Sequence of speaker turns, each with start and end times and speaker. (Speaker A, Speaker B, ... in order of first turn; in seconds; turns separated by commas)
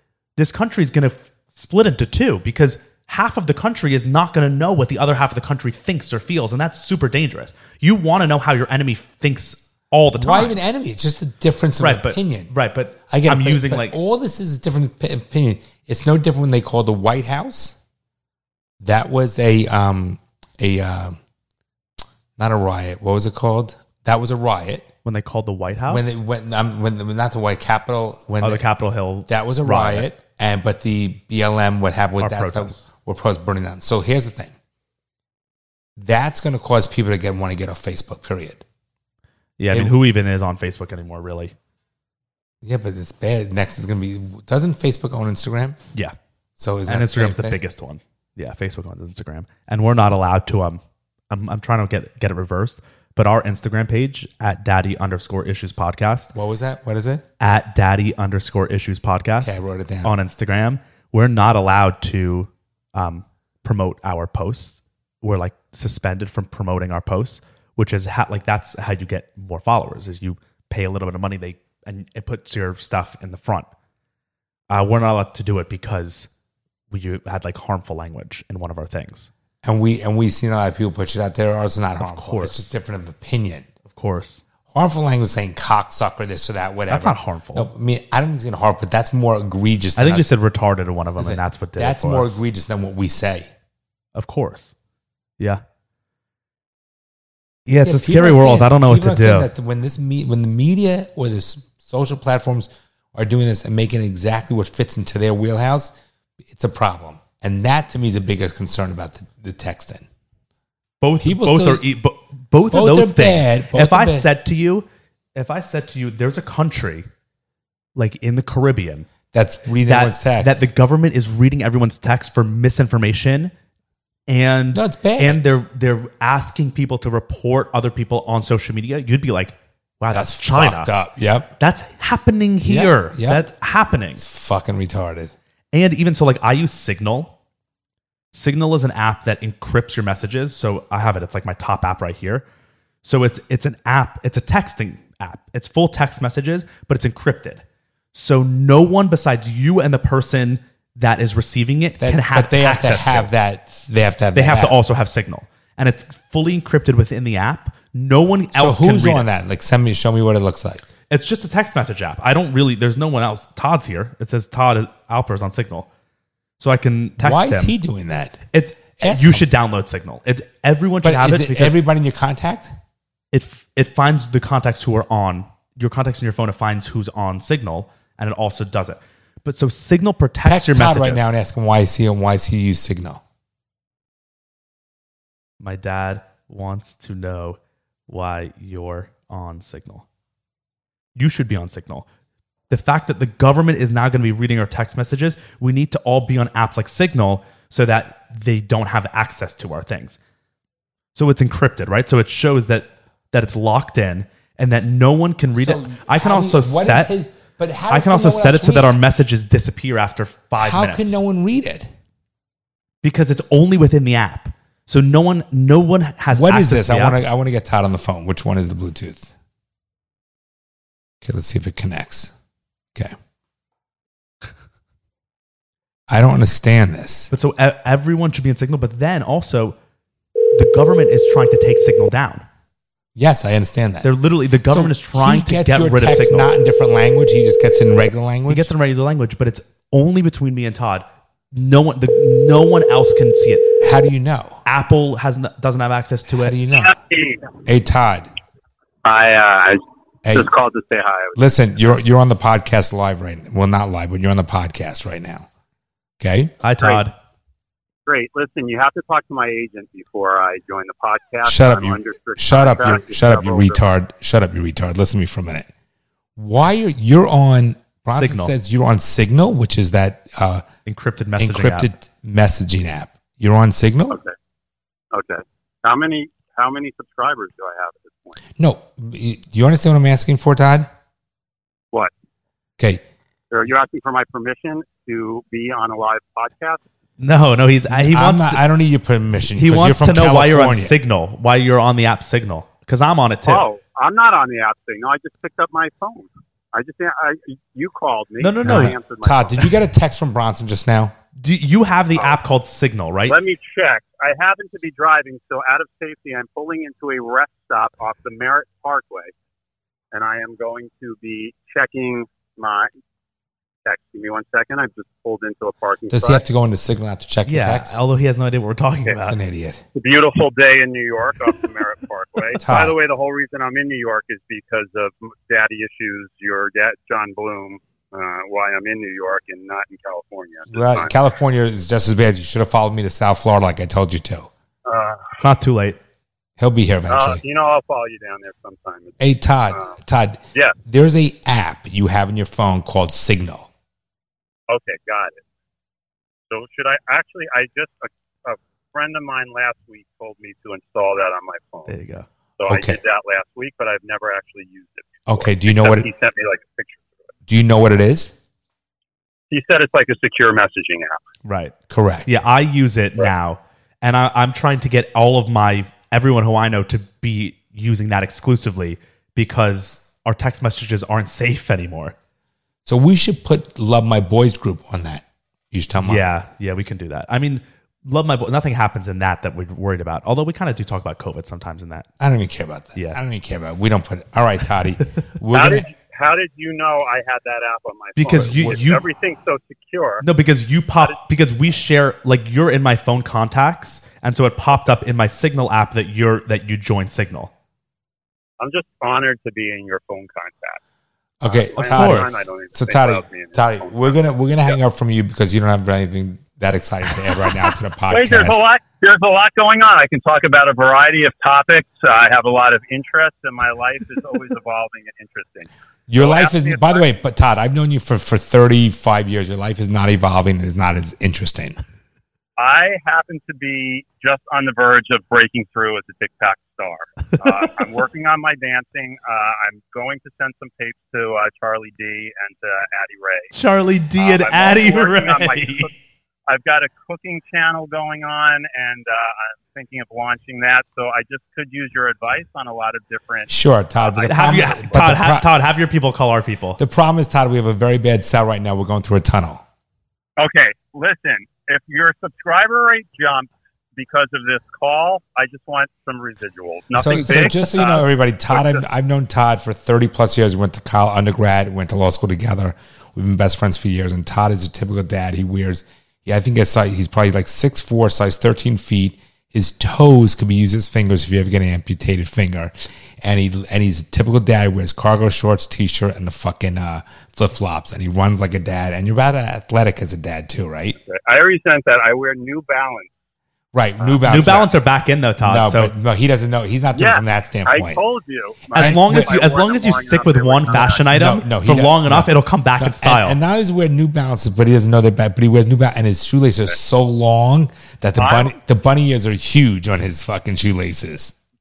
Speaker A: 0.3-10.6, Speaker B: 10.1-12.5, Speaker A: 11.8-13.9, Speaker B: 13.1-17.8, Speaker B: 18.8-21.2, Speaker B: 22.4-24.9, Speaker A: 25.0-26.2, Speaker B: 25.9-28.6, Speaker A: 28.4-30.1, Speaker B: 29.3-34.5, Speaker A: 32.2-32.9, Speaker B: 36.0-38.6, Speaker A: 39.6-41.5, Speaker B: 42.6-45.8, Speaker B: 46.6-47.6, Speaker A: 46.9-56.3, Speaker B: 56.3-57.2, Speaker A: 57.4-73.7, Speaker B: 59.4-60.1, Speaker A: 74.7-76.3, Speaker A: 76.9-79.3, Speaker B: 79.6-83.7, Speaker A: 82.0-82.7, Speaker A: 83.9-84.4, Speaker B: 84.7-90.3, Speaker A: 86.9-87.7, Speaker A: 90.0-92.4, Speaker B: 91.2-93.5, Speaker A: 94.1-94.7, Speaker A: 97.7-99.5, Speaker B: 97.8-105.9, Speaker B: 106.4-110.0, Speaker A: 111.0-117.1, Speaker B: 111.2-111.8, Speaker B: 112.7-114.3, Speaker A: 117.9-119.1, Speaker B: 119.3-120.6, Speaker A: 119.8-123.5, Speaker A: 124.3-130.9, Speaker B: 124.7-125.4, Speaker B: 130.1-131.5, Speaker A: 131.6-134.2, Speaker B: 132.6-133.5, Speaker B: 134.2-135.3, Speaker A: 135.7-137.3, Speaker A: 138.3-142.4, Speaker A: 143.0-147.6, Speaker A: 148.1-153.3, Speaker B: 152.0-154.8, Speaker A: 154.3-159.2, Speaker B: 158.5-160.8, Speaker A: 161.1-165.9, Speaker A: 166.6-167.7, Speaker B: 167.2-168.4, Speaker A: 168.5-171.8, Speaker B: 169.0-169.5, Speaker B: 171.0-172.7, Speaker A: 173.3-181.3, Speaker B: 180.4-183.2, Speaker A: 185.6-190.0, Speaker A: 191.2-192.1, Speaker A: 192.7-200.2, Speaker A: 201.1-207.1, Speaker B: 205.6-209.0, Speaker A: 207.9-211.2, Speaker B: 210.6-211.9, Speaker A: 213.0-217.2, Speaker B: 216.3-219.3, Speaker B: 221.2-222.3, Speaker B: 226.1-227.3, Speaker A: 227.3-229.8, Speaker A: 230.5-232.4, Speaker B: 233.2-234.1, Speaker A: 234.0-236.5, Speaker B: 234.7-238.7, Speaker A: 238.5-243.8, Speaker B: 243.8-244.6, Speaker A: 244.6-246.6, Speaker B: 246.3-247.0, Speaker C: 246.8-247.5, Speaker B: 247.6-248.3, Speaker C: 249.0-251.4, Speaker B: 251.3-255.5, Speaker B: 256.2-256.5, Speaker A: 256.6-257.1, Speaker C: 256.8-257.1, Speaker C: 258.0-263.9, Speaker B: 261.4-265.7, Speaker B: 266.4-270.6, Speaker A: 268.1-268.5, Speaker A: 270.9-271.9, Speaker B: 271.4-274.2, Speaker C: 275.1-278.4, Speaker B: 278.6-280.9, Speaker C: 283.5-286.8, Speaker A: 287.2-288.6, Speaker B: 287.9-290.9, Speaker A: 289.5-293.6, Speaker C: 293.4-299.7, Speaker A: 298.4-298.9, Speaker B: 298.6-301.1, Speaker A: 301.4-303.4, Speaker C: 303.3-309.3, Speaker C: 310.1-312.9, Speaker C: 313.8-316.4, Speaker B: 316.1-318.0, Speaker A: 317.4-319.4, Speaker B: 319.2-319.8, Speaker C: 319.9-331.1, Speaker B: 322.6-322.9, Speaker B: 330.7-334.5, Speaker C: 334.9-335.4, Speaker A: 335.4-336.0, Speaker B: 336.6-337.4, Speaker C: 337.1-339.1, Speaker B: 339.2-343.7, Speaker C: 344.7-345.4, Speaker C: 346.5-352.0, Speaker A: 351.9-352.3, Speaker C: 352.6-357.1, Speaker B: 352.7-353.0, Speaker B: 355.3-356.1, Speaker B: 357.5-358.3, Speaker C: 359.5-361.2, Speaker A: 361.4-361.7, Speaker B: 361.9-362.3, Speaker A: 362.2-372.1, Speaker B: 372.9-376.2, Speaker A: 376.0-382.1, Speaker B: 382.2-385.9, Speaker C: 385.5-390.2, Speaker A: 388.2-389.0, Speaker A: 390.2-397.5, Speaker C: 398.6-400.8, Speaker B: 401.4-408.6, Speaker C: 401.4-404.1, Speaker A: 401.9-402.3, Speaker C: 408.1-417.0, Speaker B: 416.1-421.8, Speaker C: 422.6-433.5, Speaker A: 433.5-435.9, Speaker C: 434.2-435.9, Speaker C: 436.5-444.9, Speaker B: 443.5-445.5, Speaker A: 444.2-446.8, Speaker B: 446.8-449.6, Speaker C: 450.4-458.8, Speaker B: 457.0-481.0, Speaker C: 481.1-483.1, Speaker B: 483.7-484.7, Speaker C: 484.0-484.3, Speaker A: 484.2-485.9, Speaker B: 485.4-488.0, Speaker C: 486.9-491.1, Speaker B: 488.7-489.3, Speaker A: 488.7-493.4, Speaker B: 490.8-501.3, Speaker C: 498.2-498.5